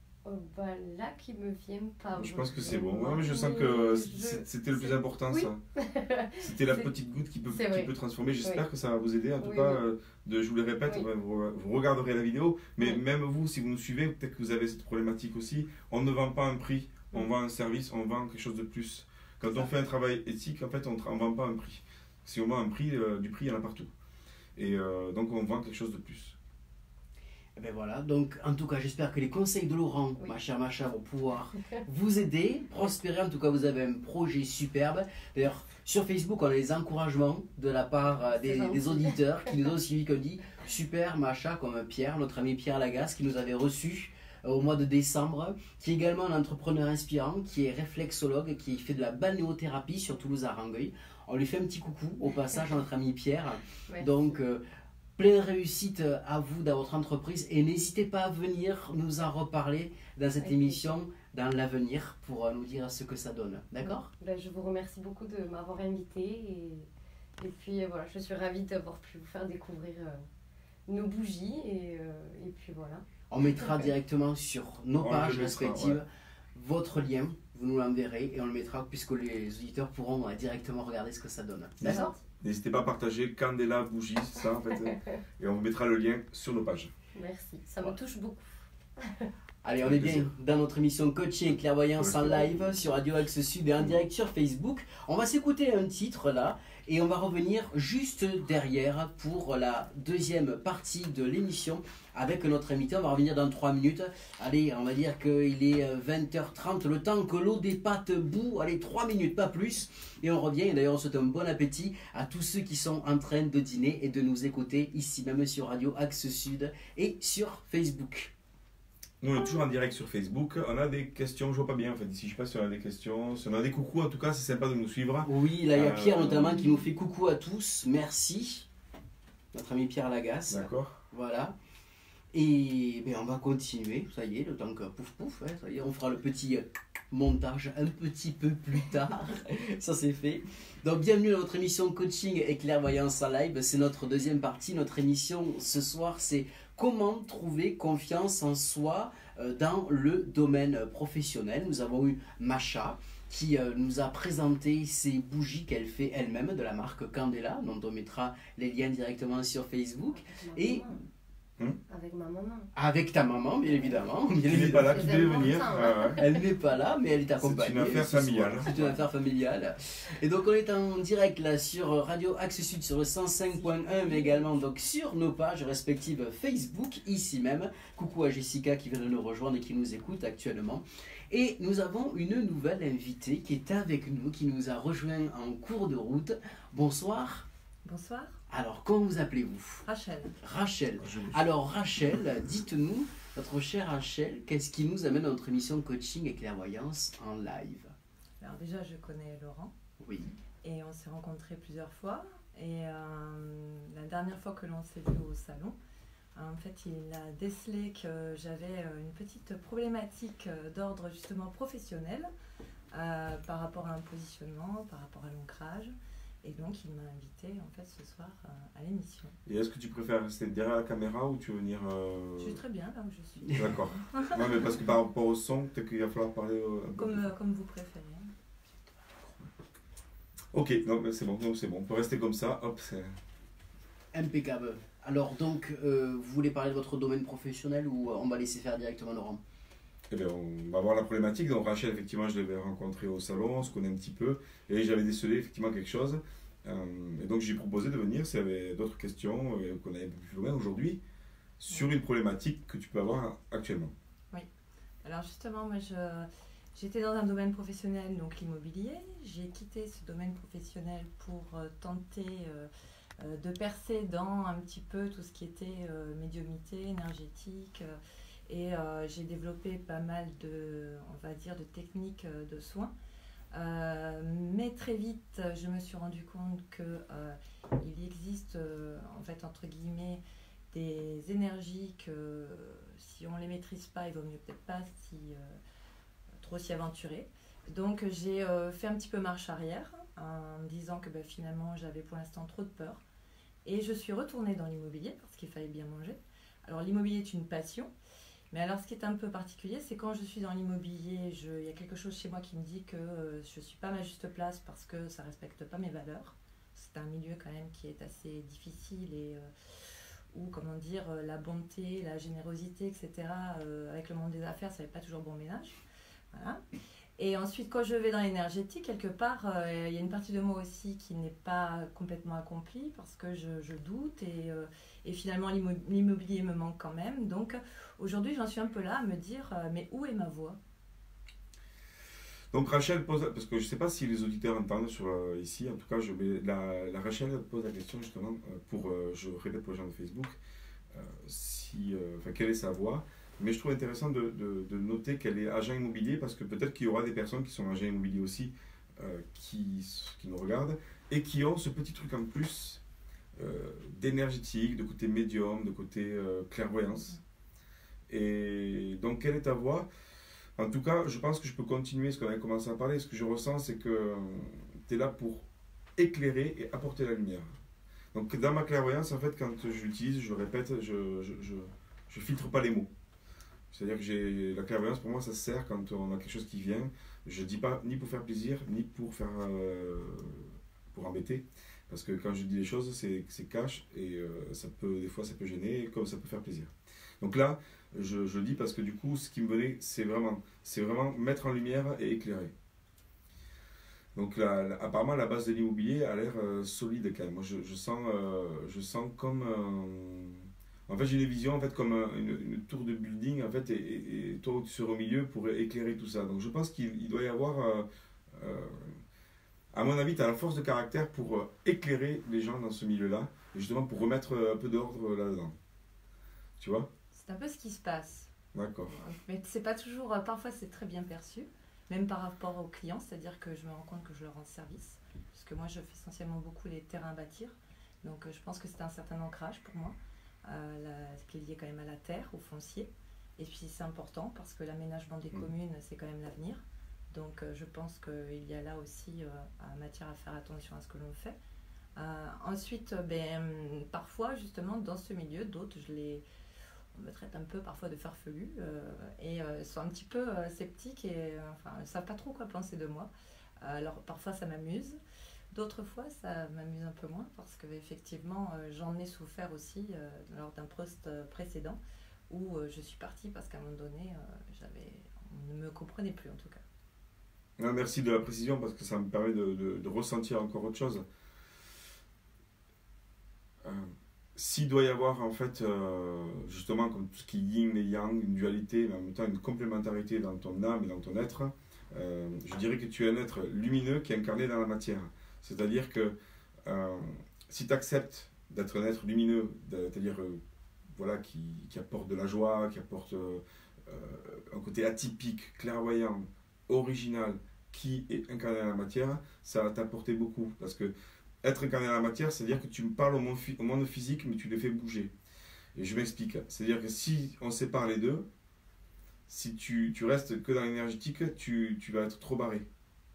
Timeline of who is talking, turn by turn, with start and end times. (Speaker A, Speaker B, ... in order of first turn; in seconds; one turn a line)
Speaker A: 0.2-6.9
Speaker B: 2.1-5.6
Speaker B: 6.4-23.9
Speaker A: 7.5-7.9
Speaker A: 9.4-9.8
Speaker B: 24.6-26.4
Speaker C: 27.6-54.6
Speaker A: 38.3-39.6
Speaker C: 55.2-64.1
Speaker A: 60.4-60.9
Speaker A: 63.8-66.9
Speaker A: 67.4-70.2
Speaker A: 70.9-73.0
Speaker C: 73.3-82.1
Speaker A: 73.6-73.9
Speaker B: 75.0-76.0
Speaker B: 81.8-86.9
Speaker A: 81.8-82.2
Speaker A: 84.9-85.2
Speaker A: 87.2-89.3
Speaker C: 89.6-118.3
Speaker B: 89.8-90.3
Speaker B: 92.0-92.7
Speaker B: 119.2-126.7
Speaker C: 125.2-128.7
Speaker C: 129.5-131.6
Speaker B: 130.5-131.0
Speaker C: 132.3-160.8
Speaker A: 160.1-161.0
Speaker A: 161.9-162.7
Speaker C: 162.8-165.6
Speaker B: 164.4-166.2
Speaker A: 164.6-166.4
Speaker C: 166.1-187.5
Speaker B: 167.4-168.8
Speaker D: 187.8-188.4
Speaker C: 188.5-189.8
Speaker D: 189.8-190.4
Speaker C: 190.4-197.9
Speaker B: 191.0-191.4
Speaker D: 198.4-199.7
Speaker C: 200.0-200.3
Speaker D: 200.6-205.8
Speaker D: 206.3-212.3
Speaker D: 212.9-215.9
Speaker D: 216.4-219.4
Speaker B: 219.5-222.6
Speaker D: 222.4-224.8
Speaker C: 223.4-223.7
Speaker B: 223.6-227.3
Speaker D: 227.0-228.3
Speaker B: 230.5-233.2
Speaker C: 234.1-239.4
Speaker B: 240.1-251.0
Speaker B: 251.6-253.9
Speaker D: 255.0-262.7
Speaker D: 263.2-268.0
Speaker D: 268.5-272.9
Speaker D: 273.5-280.2
Speaker D: 280.7-285.6
Speaker D: 286.4-293.0
Speaker D: 293.6-297.9
Speaker D: 298.5-309.5
Speaker D: 310.3-315.8
Speaker D: 316.3-316.6
Speaker D: 317.2-330.6
Speaker B: 332.5-340.4
Speaker B: 340.9-352.8
Speaker B: 353.4-357.2
Speaker B: 358.1-359.9
Speaker B: 360.6-365.5
Speaker B: 366.0-367.5
Speaker B: 368.1-372.9
Speaker B: 373.7-392.5
Speaker B: 394.1-409.0
Speaker B: 409.7-415.6
Speaker B: 416.6-416.9
Speaker D: 417.1-418.3
Speaker B: 418.5-419.0
Speaker D: 418.9-441.4
Speaker D: 442.0-446.2
Speaker D: 446.9-453.1
Speaker D: 453.6-455.0
Speaker D: 455.5-466.6
Speaker B: 467.6-471.1
Speaker B: 473.6-490.4
Speaker B: 490.9-505.1
Speaker B: 505.8-508.3
Speaker B: 509.3-512.7